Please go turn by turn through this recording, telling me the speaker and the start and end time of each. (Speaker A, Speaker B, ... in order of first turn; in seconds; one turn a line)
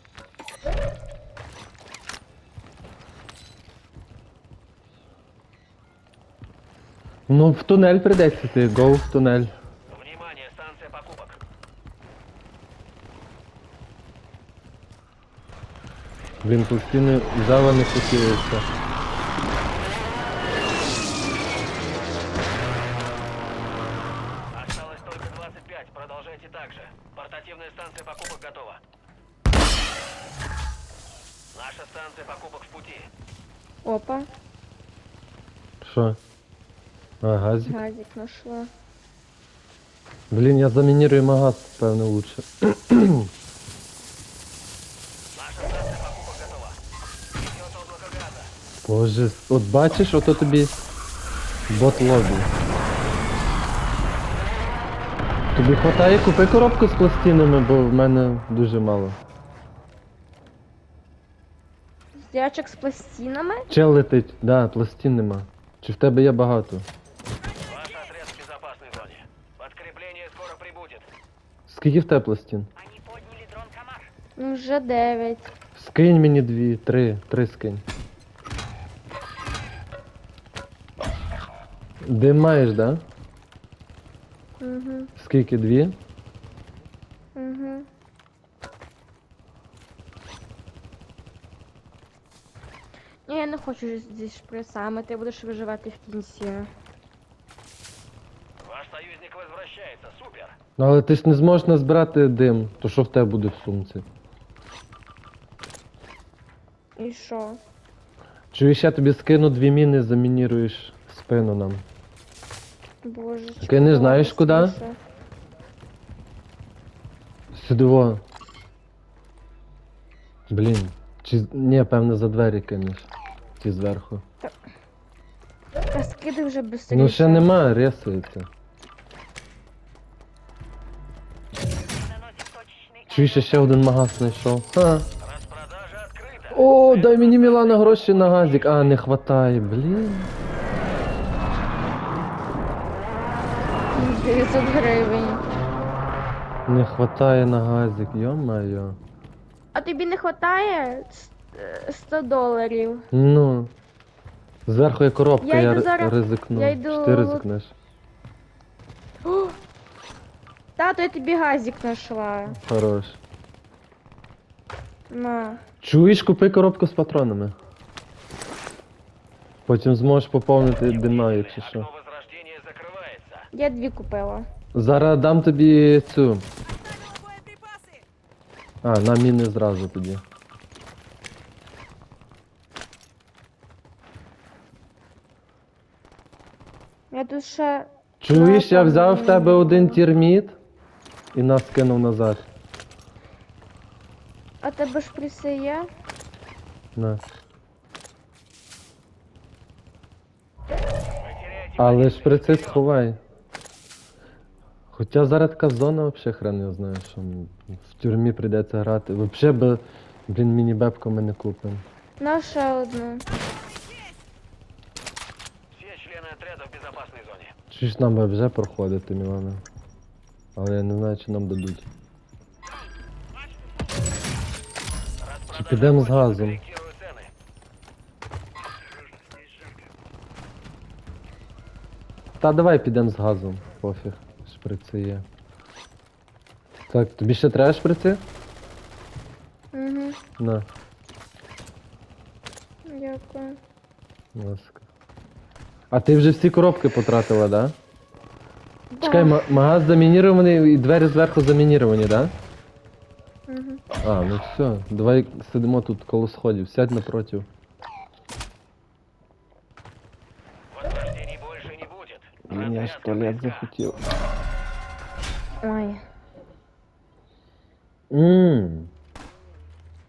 Speaker A: 7.3-9.5
Speaker B: 9.9-11.4
Speaker A: 16.4-18.6
Speaker B: 24.6-28.8
Speaker B: 31.5-33.1
Speaker C: 33.8-34.3
Speaker A: 35.8-36.2
Speaker A: 37.2-37.8
Speaker C: 37.6-38.7
Speaker A: 40.3-43.3
Speaker B: 45.4-46.8
Speaker B: 47.4-48.5
Speaker A: 48.8-50.8
Speaker A: 51.7-52.5
Speaker A: 55.5-59.2
Speaker C: 62.3-63.7
Speaker A: 63.7-66.8
Speaker B: 67.7-71.0
Speaker A: 71.7-72.7
Speaker B: 73.0-74.1
Speaker C: 74.3-75.5
Speaker A: 75.7-77.8
Speaker A: 82.0-83.0
Speaker C: 84.6-85.1
Speaker A: 85.2-86.0
Speaker C: 87.3-87.9
Speaker C: 93.3-96.7
Speaker B: 98.6-100.5
Speaker A: 100.8-104.0
Speaker C: 107.0-107.6
Speaker A: 108.5-111.8
Speaker C: 113.0-115.0
Speaker A: 113.6-114.8
Speaker A: 117.5-118.2
Speaker A: 120.5-123.1
Speaker A: 123.6-124.2
Speaker C: 125.9-127.5
Speaker A: 126.9-128.5
Speaker B: 132.3-133.0
Speaker A: 133.1-135.1
Speaker B: 135.3-136.6
Speaker A: 136.5-140.3
Speaker B: 137.1-138.4
Speaker C: 143.9-145.4
Speaker A: 146.7-149.0
Speaker C: 149.7-153.0
Speaker A: 153.1-153.7
Speaker A: 154.7-157.7
Speaker C: 155.4-157.4
Speaker C: 159.2-159.5
Speaker C: 160.8-162.6
Speaker A: 162.6-163.2
Speaker C: 165.1-165.6
Speaker A: 165.8-167.5
Speaker A: 169.7-171.9
Speaker B: 171.1-173.4
Speaker C: 173.5-174.4
Speaker A: 174.7-176.4
Speaker A: 178.8-180.2
Speaker C: 187.1-190.0
Speaker A: 188.2-190.6
Speaker A: 191.3-192.4
Speaker C: 194.6-195.9
Speaker A: 196.9-197.2
Speaker B: 201.6-202.4
Speaker A: 201.8-203.2
Speaker A: 204.9-211.8
Speaker C: 212.2-213.2
Speaker B: 215.7-217.5
Speaker A: 217.7-219.6
Speaker A: 220.6-221.8
Speaker B: 225.3-227.3
Speaker A: 225.5-226.6
Speaker A: 232.4-235.2
Speaker A: 236.9-238.2
Speaker C: 239.7-240.2
Speaker A: 240.4-240.6
Speaker C: 242.8-243.6
Speaker A: 244.3-244.8
Speaker A: 245.9-247.7
Speaker C: 248.9-249.4
Speaker A: 249.0-252.3
Speaker C: 253.5-253.8
Speaker A: 254.0-257.5
Speaker B: 260.8-263.7
Speaker A: 262.5-264.0
Speaker C: 265.6-266.0
Speaker A: 268.1-268.9